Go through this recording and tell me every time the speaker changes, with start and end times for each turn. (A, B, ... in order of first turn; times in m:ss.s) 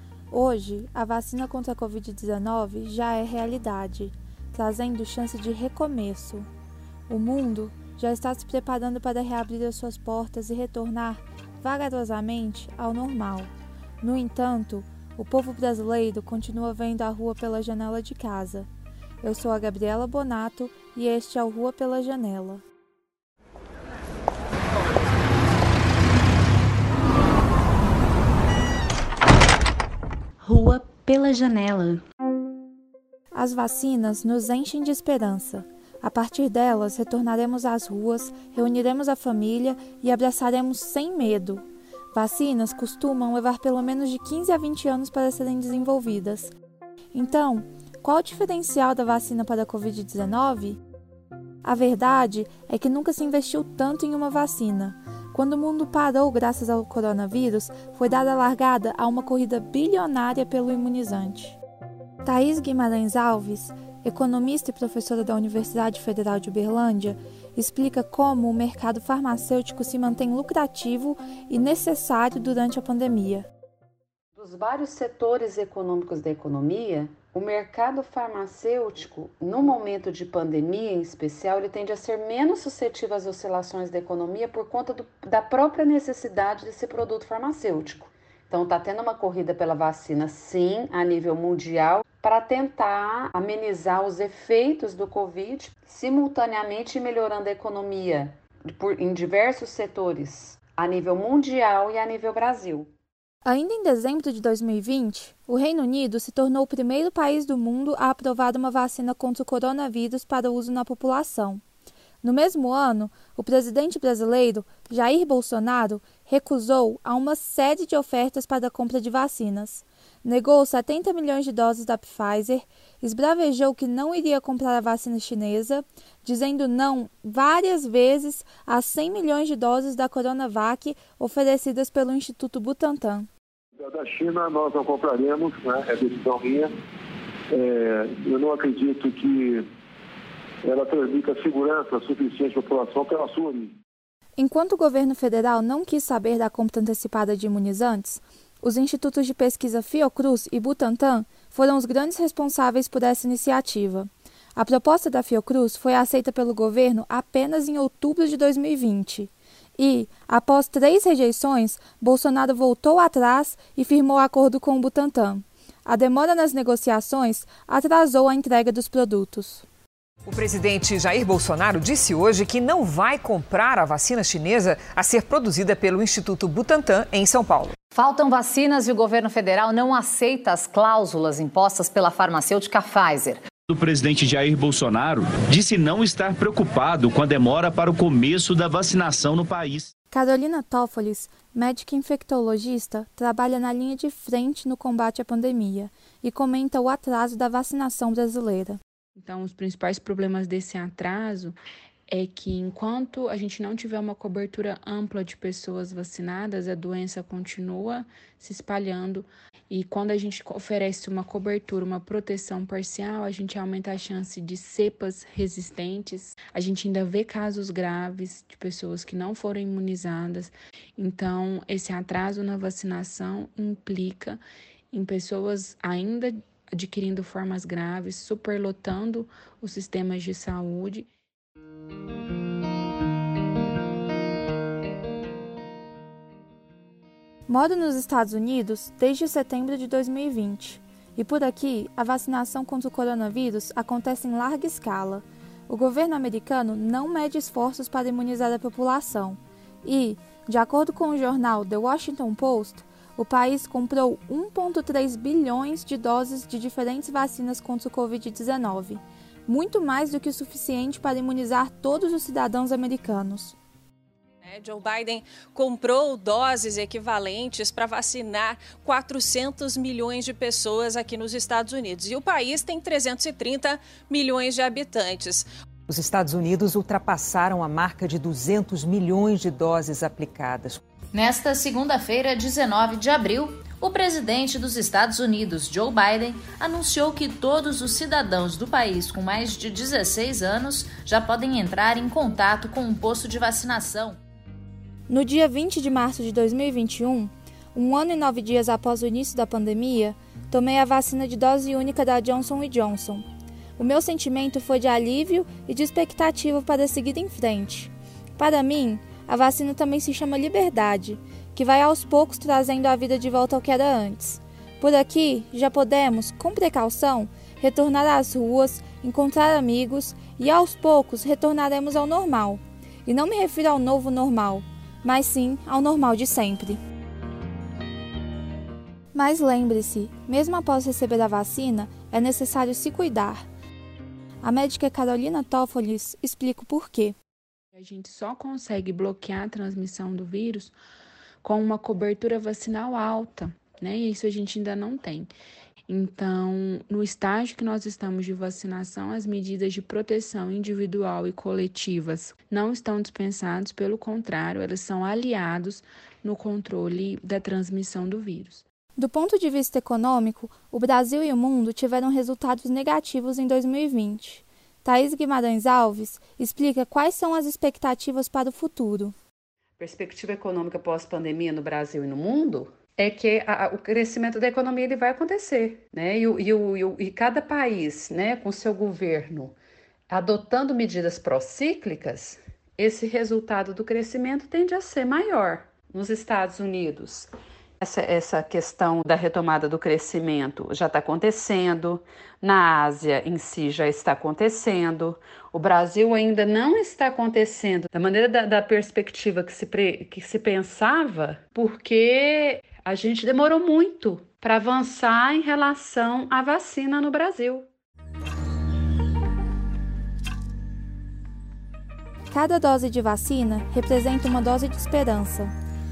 0:00.3-0:06.5 A
0:07.1-0:18.7 A
0:19.2-0:22.6 A
0:30.4-0:32.0 B
0:33.3-0:46.5 A
0:47.1-0:50.8 A
0:51.6-1:01.6 A
1:02.2-1:13.5 A
1:14.4-1:42.9 B
1:43.4-1:51.6 A
1:52.2-2:13.3 A
2:13.8-2:16.7 C
2:17.5-2:19.7 C
2:20.6-2:23.8 C
2:24.4-2:49.7 A
2:50.3-2:57.8 D
2:58.0-3:03.4 E
3:03.7-3:09.9 F
3:10.1-3:18.8 A
3:19.2-3:21.6 G
3:22.1-3:44.4 G
3:44.9-3:51.1 G
3:57.5-4:23.6 A
4:24.4-4:35.5 H
4:35.9-4:40.8 D
4:41.1-4:54.2 I
4:55.1-5:03.2 A
5:03.8-5:26.8 A
5:29.1-5:33.4 A
5:34.4-5:37.2 A
5:37.7-5:40.8 G
5:41.4-5:45.3 G
5:45.9-5:58.6 G
5:59.0-6:09.2 A
6:09.8-6:19.6 B
6:20.1-6:27.3 B
6:27.8-6:47.7 B
6:52.3-6:55.5 A